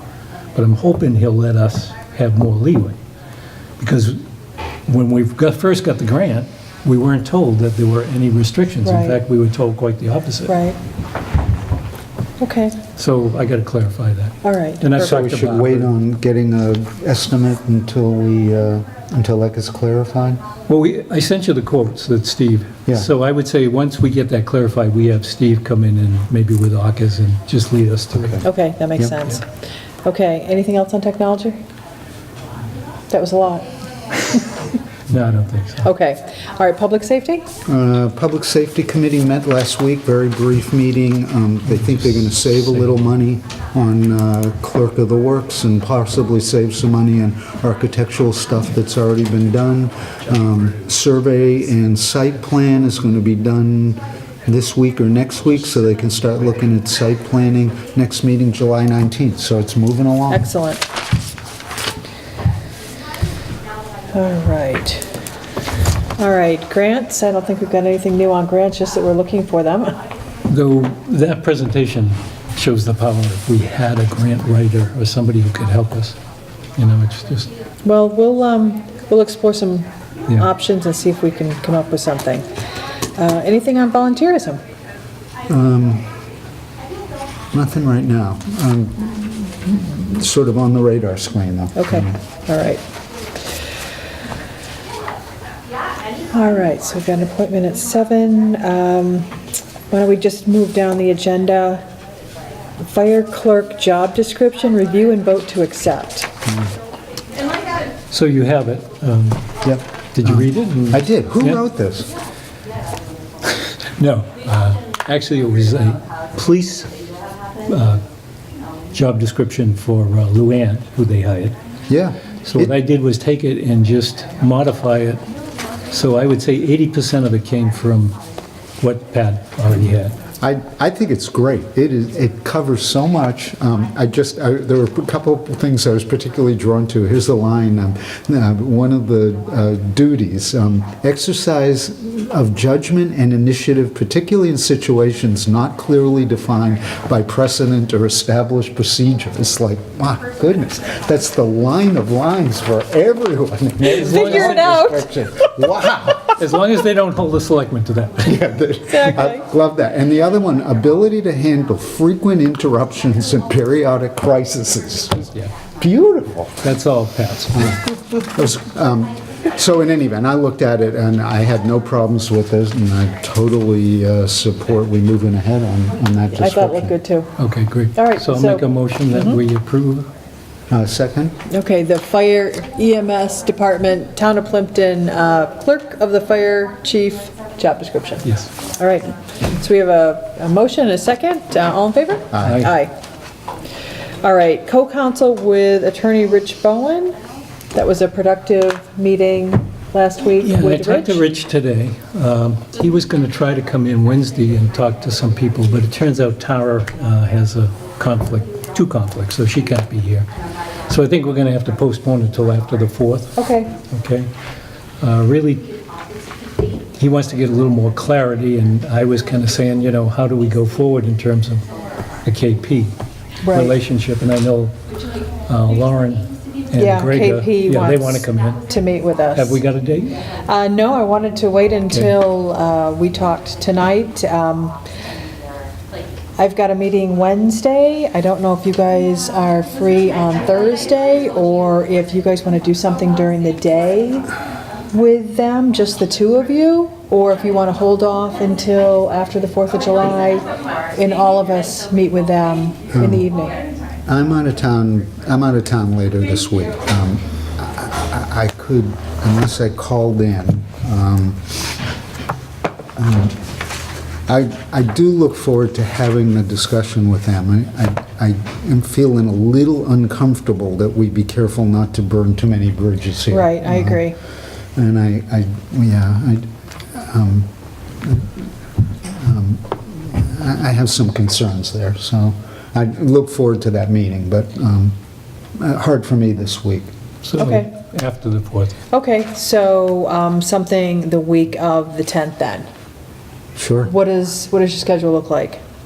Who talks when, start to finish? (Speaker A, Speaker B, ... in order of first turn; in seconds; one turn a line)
Speaker A: 0.6-3.0
Speaker A: 3.8-4.2
Speaker A: 4.9-10.6
Speaker B: 8.8-9.2
Speaker B: 10.5-10.8
Speaker B: 12.4-12.8
Speaker A: 13.0-15.9
Speaker B: 14.4-15.1
Speaker C: 15.0-20.4
Speaker A: 20.7-28.5
Speaker C: 28.2-28.4
Speaker B: 28.4-29.5
Speaker B: 30.1-31.6
Speaker B: 33.1-34.6
Speaker A: 35.1-35.9
Speaker B: 35.8-37.5
Speaker C: 37.7-60.5
Speaker A: 42.7-43.0
Speaker B: 60.3-60.8
Speaker B: 64.1-65.1
Speaker B: 66.2-70.0
Speaker A: 70.5-76.2
Speaker A: 76.8-77.5
Speaker B: 77.8-82.5
Speaker B: 83.2-84.6
Speaker C: 85.5-86.1
Speaker C: 87.5-92.2
Speaker B: 91.8-92.8
Speaker B: 96.3-99.3
Speaker B: 99.9-101.8
Speaker B: 102.8-106.3
Speaker A: 108.1-109.5
Speaker C: 109.6-112.1
Speaker A: 110.1-111.6
Speaker A: 114.0-116.9
Speaker A: 117.7-118.0
Speaker A: 118.9-121.6
Speaker C: 121.9-122.7
Speaker A: 122.4-125.2
Speaker A: 125.9-128.2
Speaker A: 128.8-130.2
Speaker C: 130.4-156.4
Speaker A: 153.8-154.8
Speaker B: 153.9-155.1
Speaker A: 156.4-158.5
Speaker C: 158.2-166.6
Speaker B: 158.9-159.4
Speaker A: 166.6-167.9
Speaker C: 167.6-176.9
Speaker B: 176.3-177.3
Speaker A: 177.4-180.1
Speaker B: 177.9-179.4
Speaker C: 180.7-181.3
Speaker B: 181.5-192.9
Speaker C: 192.3-192.7
Speaker A: 192.4-192.8
Speaker B: 194.2-197.2
Speaker B: 197.7-201.2
Speaker A: 200.4-210.3
Speaker A: 210.9-214.3
Speaker B: 213.4-213.7
Speaker A: 215.0-215.7
Speaker A: 217.0-221.6
Speaker A: 222.2-222.9
Speaker B: 223.4-223.8
Speaker A: 223.5-224.8
Speaker A: 225.4-228.7
Speaker B: 226.8-229.6
Speaker A: 229.3-230.2
Speaker B: 230.4-234.8
Speaker B: 236.4-244.3
Speaker B: 244.9-253.6
Speaker C: 252.9-253.3
Speaker C: 254.1-261.6
Speaker C: 263.0-263.4
Speaker C: 264.3-274.1
Speaker B: 273.3-274.2
Speaker C: 274.8-277.5
Speaker C: 278.0-278.5
Speaker C: 279.1-284.9
Speaker C: 285.6-286.9
Speaker A: 287.2-288.8
Speaker B: 287.4-287.7
Speaker B: 288.9-292.7
Speaker C: 293.6-293.9
Speaker B: 293.9-295.6